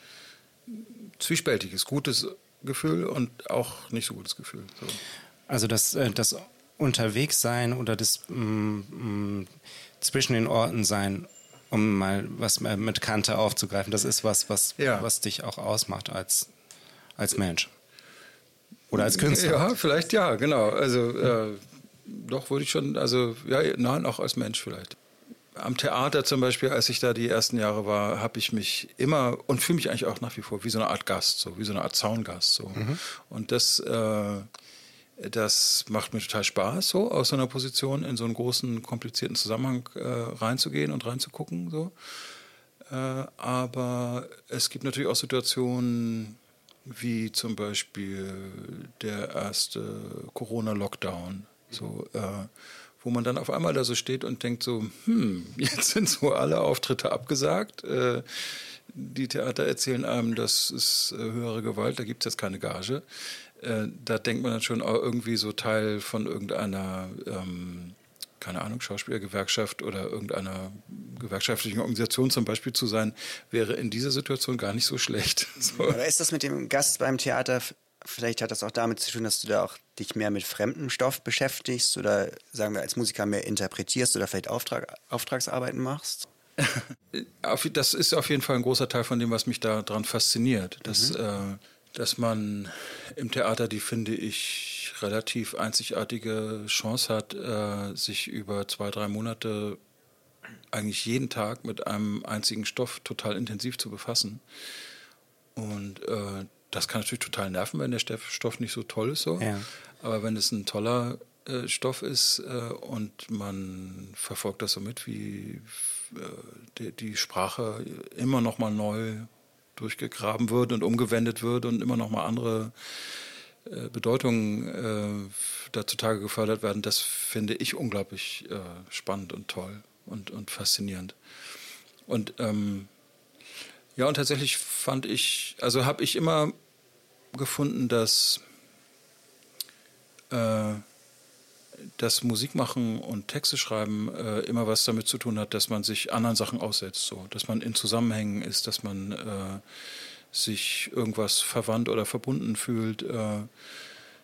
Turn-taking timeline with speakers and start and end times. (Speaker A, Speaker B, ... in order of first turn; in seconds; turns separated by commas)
Speaker A: 0.7-5.0, Speaker B: 5.5-9.5, Speaker B: 10.0-16.5, Speaker A: 14.8-15.1, Speaker B: 17.2-17.7, Speaker B: 18.9-19.6, Speaker A: 18.9-25.0, Speaker A: 25.6-34.5, Speaker A: 35.2-42.1, Speaker A: 42.9-76.0, Speaker C: 75.7-86.3, Speaker A: 86.6-99.8, Speaker C: 90.8-91.2, Speaker A: 100.7-104.4, Speaker A: 105.6-131.2, Speaker B: 109.4-109.7, Speaker A: 132.1-132.9, Speaker A: 134.0-136.6, Speaker A: 137.3-138.4, Speaker A: 140.3-140.8, Speaker A: 142.0-149.6, Speaker A: 150.3-153.5